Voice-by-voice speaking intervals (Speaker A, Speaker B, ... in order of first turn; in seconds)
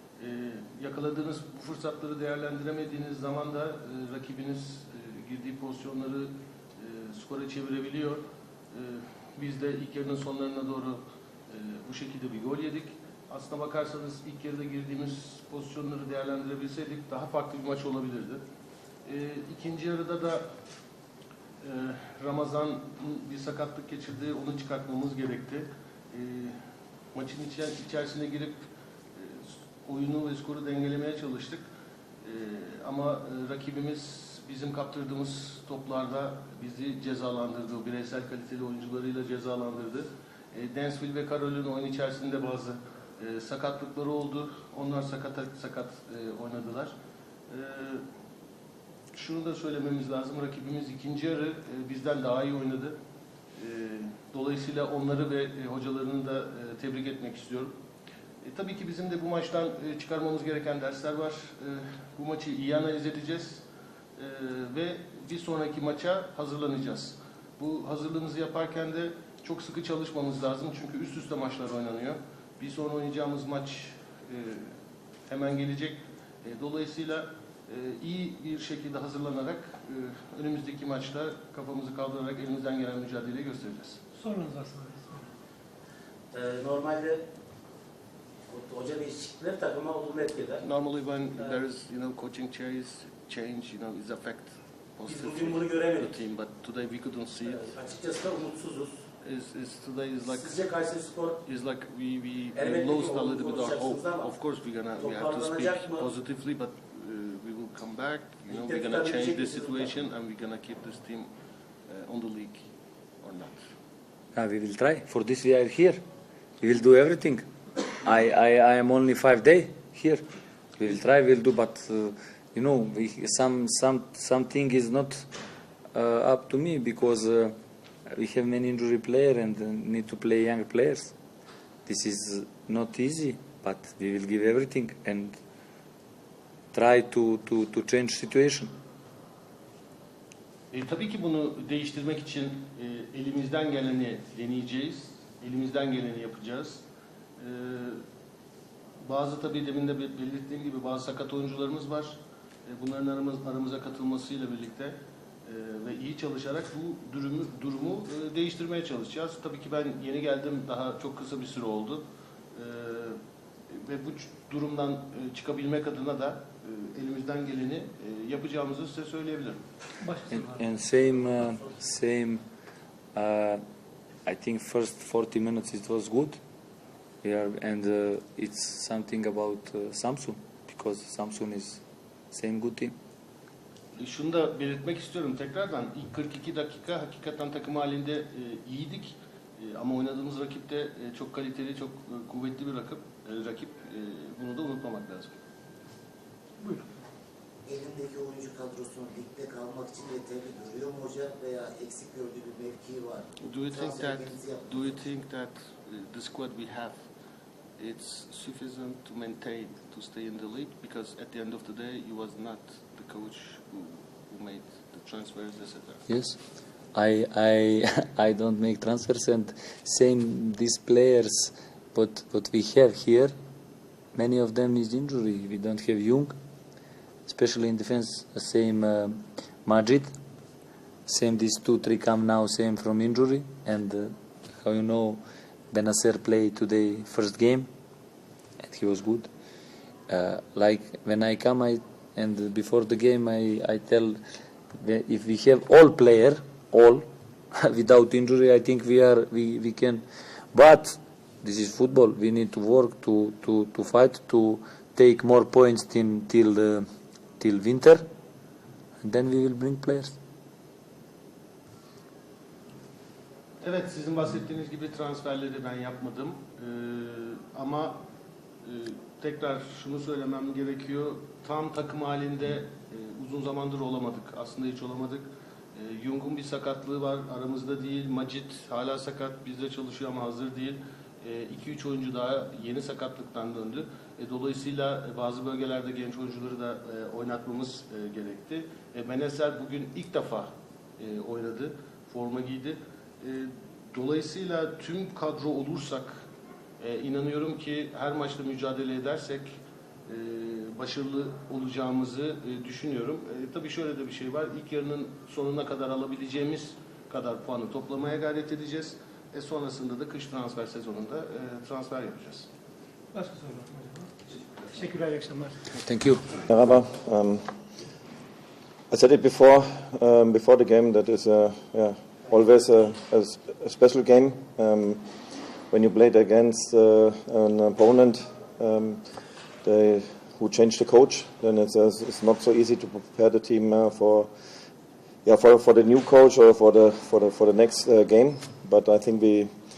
Speaker A: 0.2-18.4, 19.1-20.5, 21.6-26.6, 27.1-28.6, 29.1-31.7, 32.2-46.9, 47.5-48.0, 49.1-53.0, 53.6-57.7, 58.4-63.6, 64.2-74.7, 75.3-84.0, 90.6-97.8, 99.2-111.3, 111.9-112.7, 113.2-113.6, 140.7-146.8, 147.4-148.0, 149.0-162.0, 162.5-163.2, 163.7-169.6, 184.0-195.4, 203.4-207.0, 207.8-216.1, 263.6-268.0, 268.6-296.2, 296.8-299.5, 300.1-312.5
Speaker B: 84.2-85.3, 170.0-170.6, 313.1-315.6
Speaker C: 86.3-87.3, 88.5-90.6, 95.1-96.0, 97.7-99.0, 100.7-101.4, 102.7-104.3, 105.2-106.0, 108.5-109.9
Speaker D: 114.3-116.0, 116.6-117.5, 118.0-120.2, 120.8-125.3, 125.9-127.5, 128.1-131.1, 131.9-135.4, 136.7-138.7, 170.3-172.4, 173.1-173.6, 174.3-176.4, 177.2-182.9, 216.1-216.4, 216.9-223.3, 224.1-226.3, 227.3-230.1, 231.1-235.2, 235.7-237.7, 238.6-239.3, 240.1-244.2, 244.8-247.1, 247.6-256.9, 257.4-258.1, 259.0-260.1, 315.8-316.2
Speaker E: 197.7-205.0
Speaker F: 316.5-317.5, 318.9-325.1, 325.7-329.1, 329.6-334.3, 335.2-339.5